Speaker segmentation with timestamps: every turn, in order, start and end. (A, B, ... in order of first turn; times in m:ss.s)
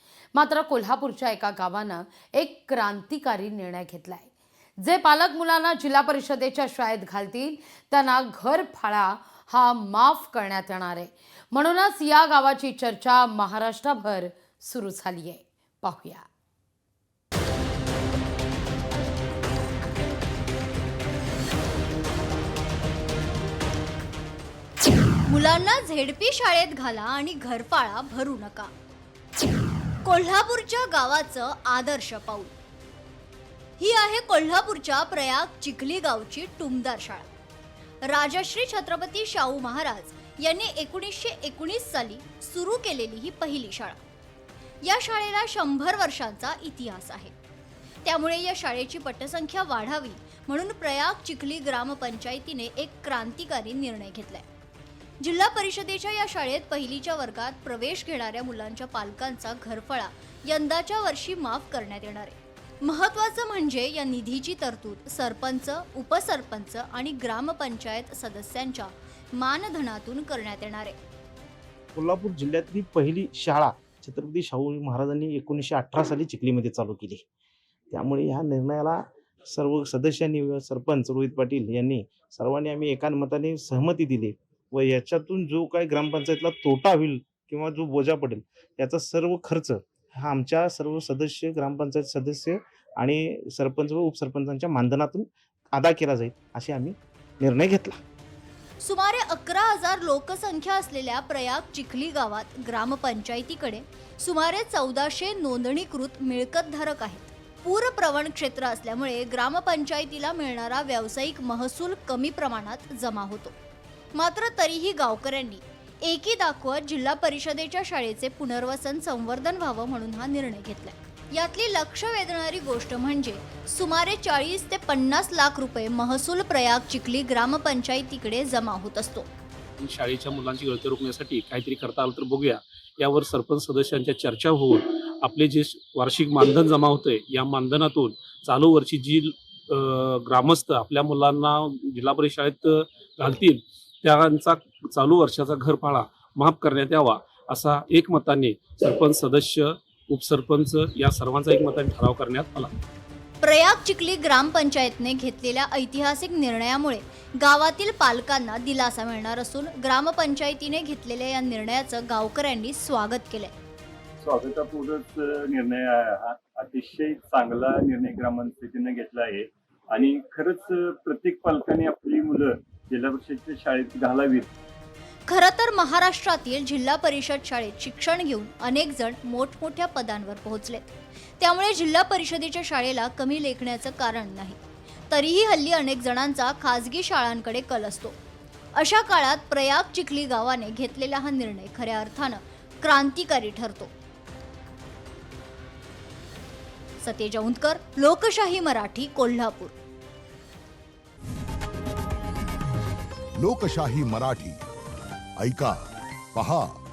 0:00.3-0:16.3 A
0:25.3-0:28.7 B
0:30.0-0:32.5 B
0:33.8-0:37.3 B
0:38.1-0:44.0 B
0:44.8-0:47.3 B
0:48.0-0:54.4 B
0:55.2-1:11.0 B
1:12.0-1:17.2 C
1:17.9-1:38.0 C
1:38.8-1:53.6 B
1:54.2-2:09.3 B
2:09.8-2:32.7 D
2:33.4-2:43.5 B
2:44.2-2:54.5 E
2:55.3-3:04.6 B
3:05.1-3:08.2 B
3:08.8-3:13.9 B
3:17.0-3:19.7 B
3:23.4-3:24.6 F
3:25.4-3:25.8 F
3:26.3-3:26.8 F